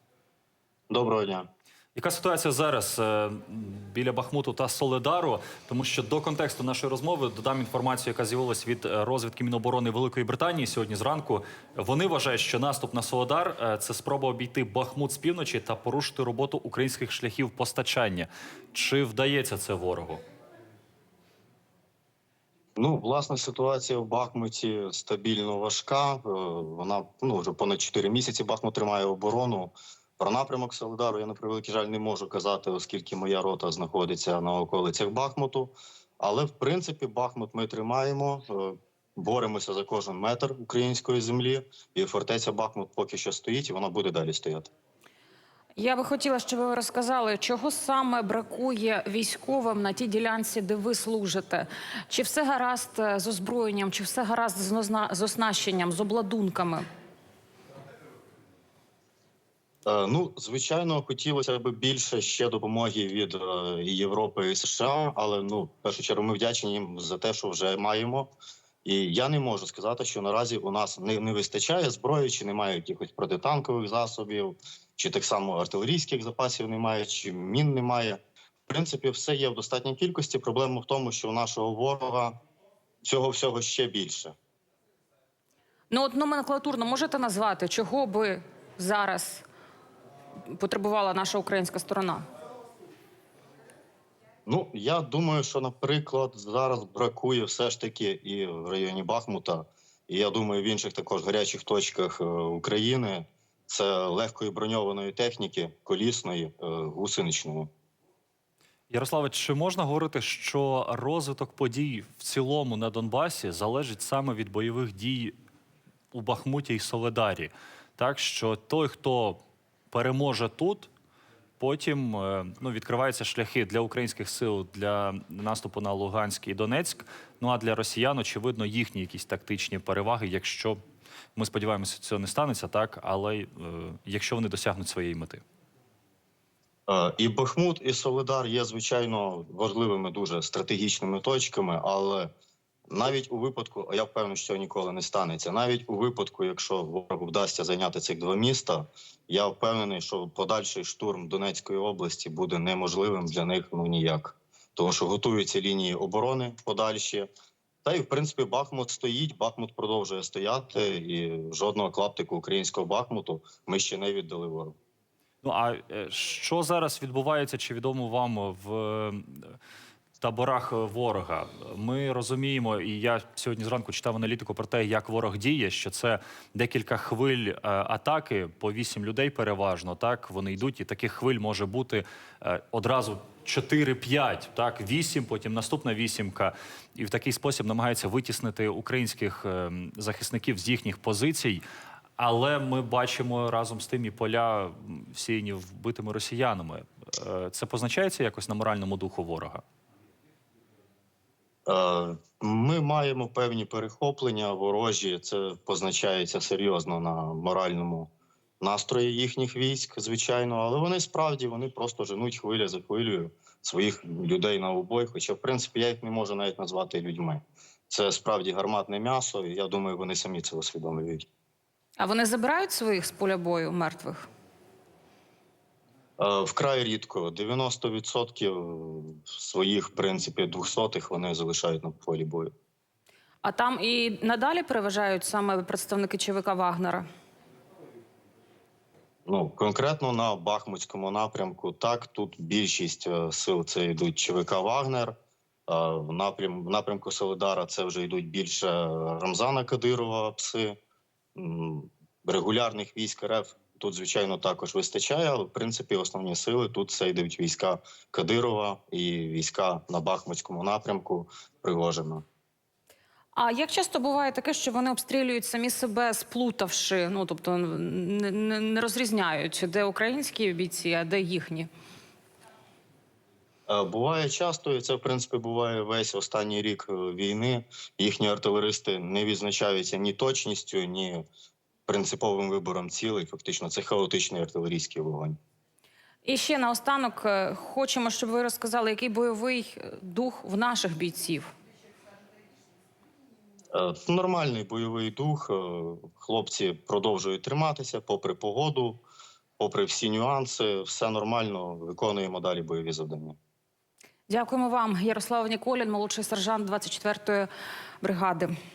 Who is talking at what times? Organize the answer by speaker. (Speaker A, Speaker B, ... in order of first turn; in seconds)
Speaker A: 0.9-1.5, 22.8-44.7, 59.8-68.3, 68.8-82.3, 83.0-84.3, 94.5-107.7, 136.9-142.3, 142.9-157.3, 157.8-164.8, 201.7-221.2, 226.2-232.5, 239.2-245.1, 245.7-250.8, 251.3-262.2, 273.7-281.2, 281.9-285.4, 293.7-299.0, 299.6-303.4
Speaker B: 1.9-20.2, 108.9-115.3, 116.1-119.4, 119.9-120.9, 121.6-130.8, 131.3-135.4, 165.4-169.5, 170.2-191.6, 192.2-199.6
Speaker C: 45.8-56.8, 85.9-89.4, 90.5-92.2, 222.0-224.3, 233.4-237.0, 263.3-271.7, 286.2-291.5, 304.3-307.5, 308.0-308.5